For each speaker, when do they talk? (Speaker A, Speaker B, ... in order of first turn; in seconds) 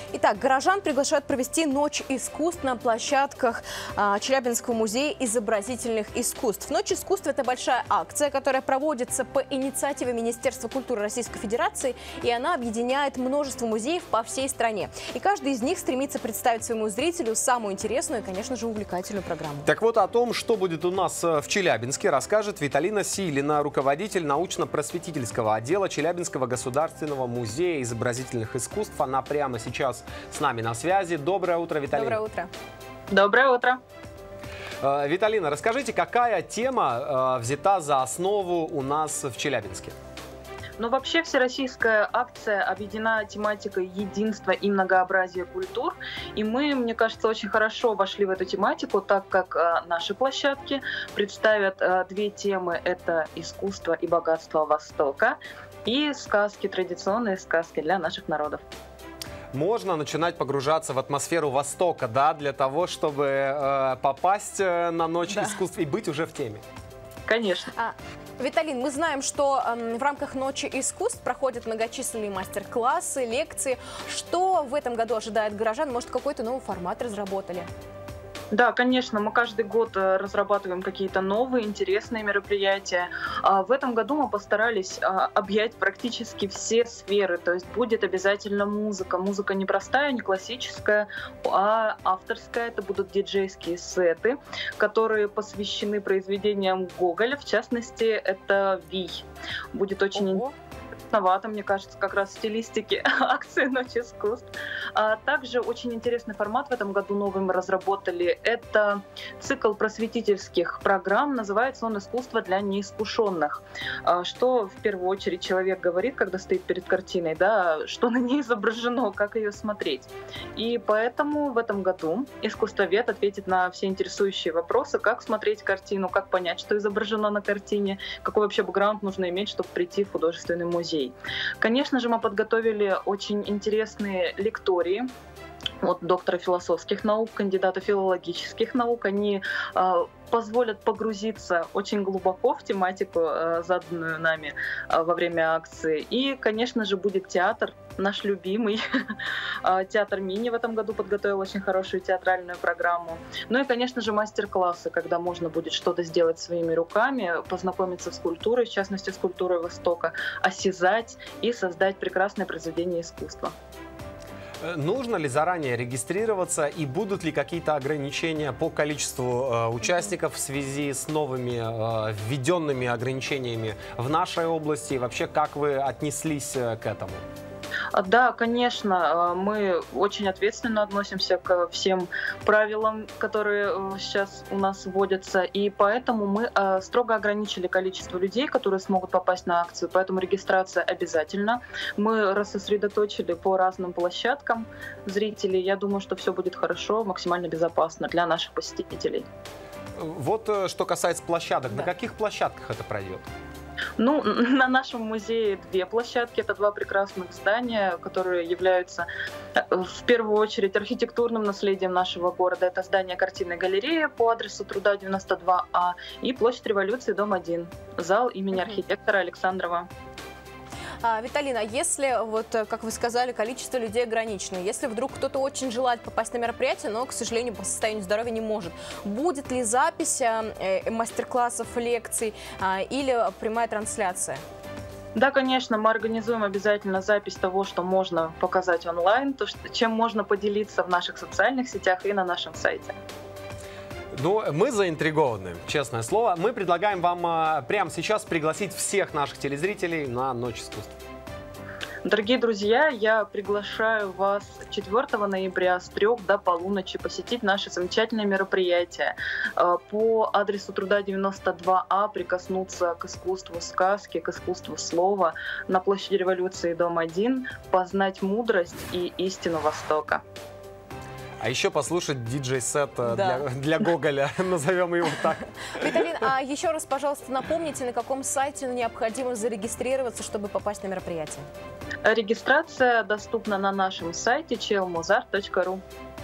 Speaker A: 0.1-19.7, 31.9-32.5, 65.2-65.6, 67.7-77.7, 100.2-100.5, 221.0-234.4, 273.0-273.4, 275.8-281.5
Speaker B: 19.6-32.2, 34.8-39.9, 59.5-66.6, 164.6-177.2, 200.0-203.3, 244.1-250.9, 271.4-276.0
Speaker C: 33.1-33.8, 40.8-58.6, 67.3-67.7, 78.5-100.4, 101.1-135.1, 135.8-163.5, 177.9-199.2, 204.0-219.9, 235.1-242.9, 252.0-270.2, 282.0-285.8